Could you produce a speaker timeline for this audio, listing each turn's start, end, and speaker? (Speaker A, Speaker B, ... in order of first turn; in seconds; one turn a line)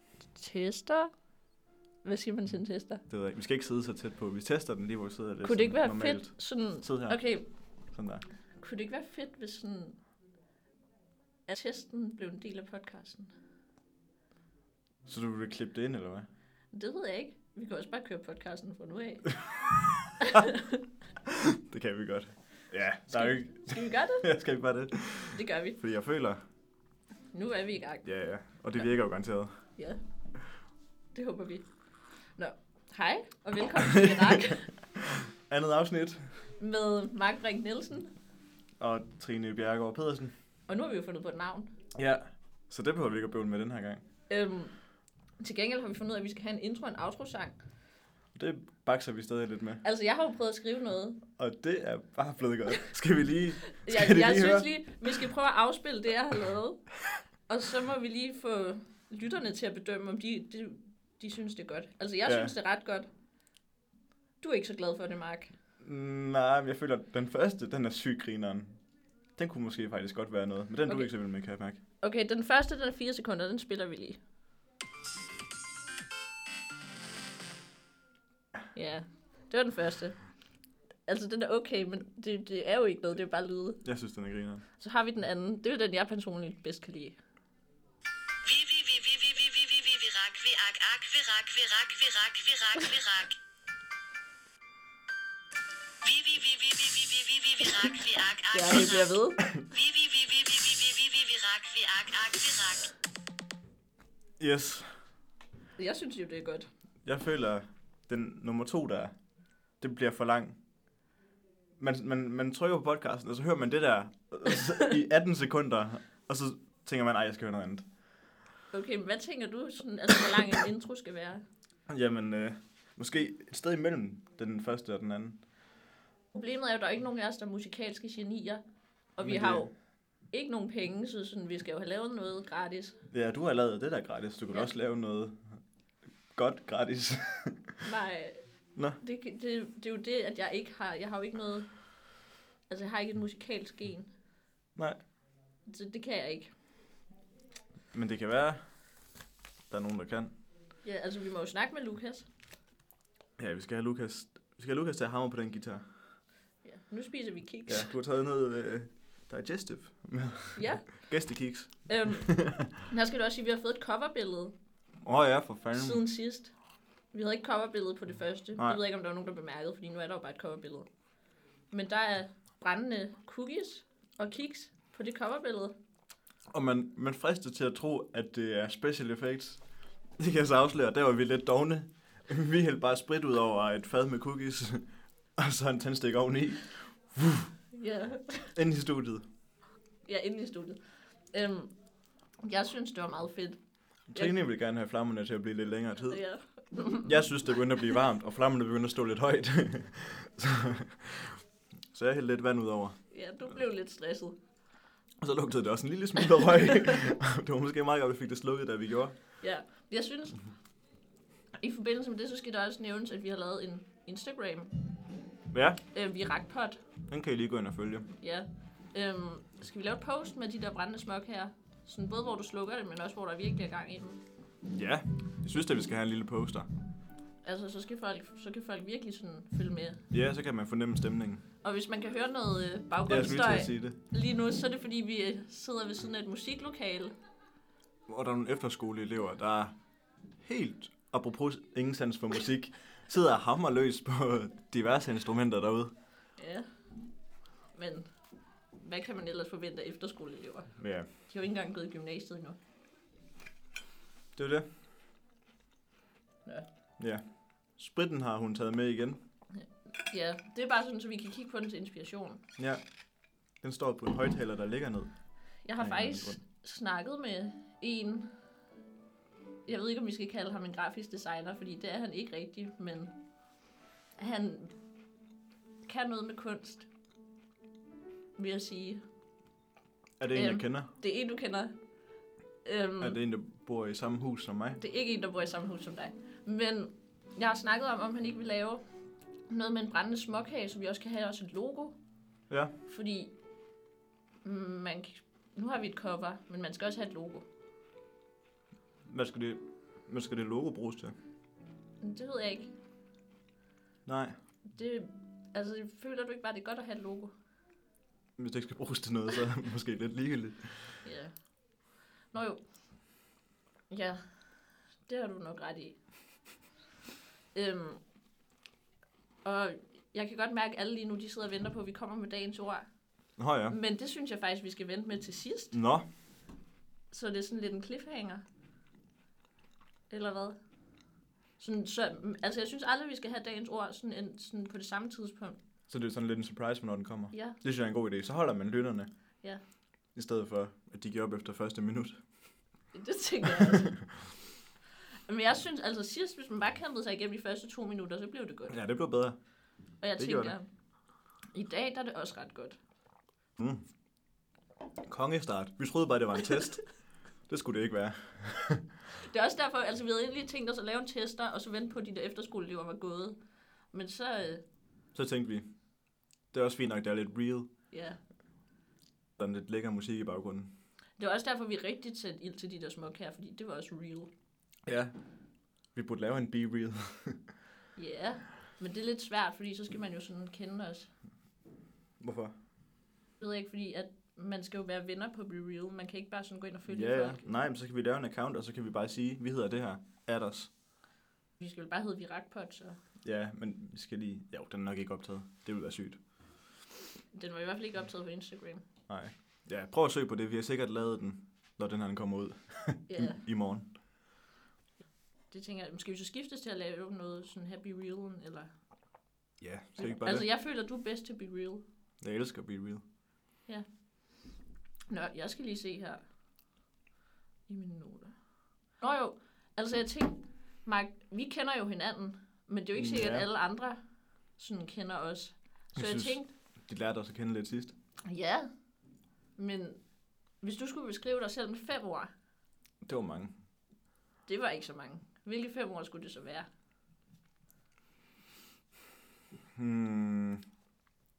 Speaker A: 0.3-1.1
Speaker A: 2.0-3.0
Speaker B: 3.1-7.2
Speaker A: 5.4-7.5
Speaker B: 7.9-8.2
Speaker A: 8.6-10.0
Speaker A: 11.5-13.3
Speaker B: 15.1-16.3
Speaker A: 16.7-19.3
Speaker B: 19.8-20.4
Speaker A: 20.2-20.9
Speaker B: 21.3-26.4
Speaker A: 23.1-24.3
Speaker A: 25.3-25.8
Speaker A: 27.3-28.0
Speaker B: 28.0-29.6
Speaker A: 31.1-31.6
Speaker A: 32.4-34.7
Speaker B: 33.9-36.2
Speaker A: 36.6-38.1
Speaker B: 38.8-40.3
Speaker A: 40.7-41.7
Speaker B: 41.9-44.0
Speaker A: 44.3-44.7
Speaker A: 45.4-47.6
Speaker B: 48.3-49.8
Speaker A: 49.8-51.2
Speaker B: 51.4-54.7
Speaker A: 53.7-56.9
Speaker A: 57.5-63.1
Speaker B: 62.2-62.5
Speaker A: 64.4-65.5
Speaker B: 65.8-68.8
Speaker B: 69.4-71.8
Speaker A: 72.0-74.2
Speaker A: 78.7-80.2
Speaker A: 81.0-83.8
Speaker B: 83.8-84.6
Speaker A: 84.8-87.2
Speaker C: 88.4-93.3
Speaker C: 96.0-99.1
Speaker A: 98.5-99.4
Speaker C: 99.7-102.9
Speaker B: 104.4-105.0
Speaker A: 105.8-106.7
Speaker B: 107.0-109.1
Speaker B: 109.8-110.6
Speaker B: 111.8-117.9
Speaker A: 118.7-121.4
Speaker B: 121.9-125.4
Speaker A: 126.3-128.6
Speaker A: 129.2-129.7
Speaker B: 129.2-129.7
Speaker A: 130.3-133.0
Speaker B: 133.1-135.4
Speaker B: 136.3-137.8
Speaker A: 137.8-138.4
Speaker A: 139.0-141.7
Speaker A: 142.7-144.1
Speaker A: 145.6-146.5
Speaker B: 147.9-148.6
Speaker B: 149.7-150.3
Speaker A: 150.8-152.3
Speaker B: 153.4-155.9
Speaker A: 156.6-157.9
Speaker B: 157.7-162.7
Speaker A: 160.6-161.0
Speaker A: 161.9-164.5
Speaker B: 165.0-166.0
Speaker A: 165.7-166.5
Speaker A: 167.1-170.9
Speaker A: 171.7-175.7
Speaker B: 176.5-179.6
Speaker B: 180.2-187.5
Speaker A: 187.7-188.5
Speaker B: 188.5-189.3
Speaker A: 190.0-191.7
Speaker A: 192.4-193.6
Speaker B: 194.1-196.2
Speaker A: 196.1-197.1
Speaker B: 197.0-201.4
Speaker B: 201.9-203.0
Speaker A: 203.1-204.4
Speaker B: 205.2-209.2
Speaker A: 209.4-210.4
Speaker A: 211.6-214.7
Speaker B: 215.5-215.8
Speaker A: 215.9-216.8
Speaker B: 217.1-218.1
Speaker A: 218.2-224.2
Speaker B: 224.7-226.7
Speaker A: 227.4-230.0
Speaker B: 230.1-231.4
Speaker A: 231.6-237.1
Speaker B: 233.1-234.0
Speaker B: 238.1-239.7
Speaker B: 240.4-245.9
Speaker A: 246.4-246.7
Speaker A: 247.7-248.1
Speaker A: 248.7-252.6
Speaker B: 250.8-251.1
Speaker B: 254.3-254.7
Speaker B: 257.8-259.2
Speaker A: 259.5-262.4
Speaker B: 263.6-265.1
Speaker A: 265.6-268.3
Speaker B: 265.8-266.4
Speaker A: 269.6-273.1
Speaker A: 274.2-274.7
Speaker A: 275.8-276.9
Speaker A: 278.4-279.0
Speaker B: 280.2-280.9
Speaker A: 280.3-281.7
Speaker A: 282.6-283.2
Speaker B: 283.0-284.8
Speaker A: 284.8-288.8
Speaker A: 289.5-291.9
Speaker B: 292.5-292.7
Speaker A: 292.9-293.3
Speaker A: 294.4-297.4
Speaker B: 299.1-301.1
Speaker A: 302.0-302.7
Speaker B: 304.1-304.4
Speaker A: 304.6-307.3
Speaker B: 308.4-311.0
Speaker A: 311.0-311.3
Speaker A: 312.3-312.6
Speaker A: 313.9-314.3
Speaker A: 315.0-316.0
Speaker A: 317.5-318.0
Speaker A: 319.4-322.9
Speaker B: 323.4-323.8
Speaker A: 323.7-325.8
Speaker B: 325.7-326.0
Speaker A: 327.1-328.4
Speaker A: 330.1-330.6
Speaker A: 331.6-335.6
Speaker B: 335.9-339.1
Speaker A: 337.3-337.6
Speaker B: 340.1-342.2
Speaker A: 342.9-344.0
Speaker A: 345.3-348.8
Speaker B: 348.7-349.4
Speaker A: 350.0-350.6
Speaker B: 350.2-350.5
Speaker A: 351.5-352.8
Speaker B: 353.6-353.8
Speaker B: 355.1-356.8
Speaker B: 357.5-358.8
Speaker A: 359.1-363.4
Speaker A: 363.9-364.6
Speaker B: 365.1-365.7
Speaker B: 366.5-367.7
Speaker A: 367.9-368.2
Speaker B: 369.4-370.7
Speaker A: 371.2-374.3
Speaker B: 374.9-375.1
Speaker B: 375.9-377.4
Speaker A: 377.9-381.1
Speaker B: 382.2-382.5
Speaker A: 383.4-387.4
Speaker B: 386.9-390.7
Speaker A: 391.6-393.0
Speaker B: 393.2-396.2
Speaker A: 397.3-398.8
Speaker B: 399.1-403.9
Speaker A: 403.1-403.4
Speaker A: 405.5-408.7
Speaker B: 409.6-410.5
Speaker A: 410.0-411.8
Speaker B: 412.2-413.0
Speaker A: 415.1-416.2
Speaker A: 417.7-418.3
Speaker A: 419.0-424.0
Speaker B: 422.9-423.5
Speaker A: 424.6-426.5
Speaker B: 425.9-427.9
Speaker A: 428.2-428.7
Speaker A: 429.6-430.0
Speaker A: 430.6-432.3
Speaker B: 433.0-433.5
Speaker A: 434.4-436.7
Speaker B: 439.7-440.6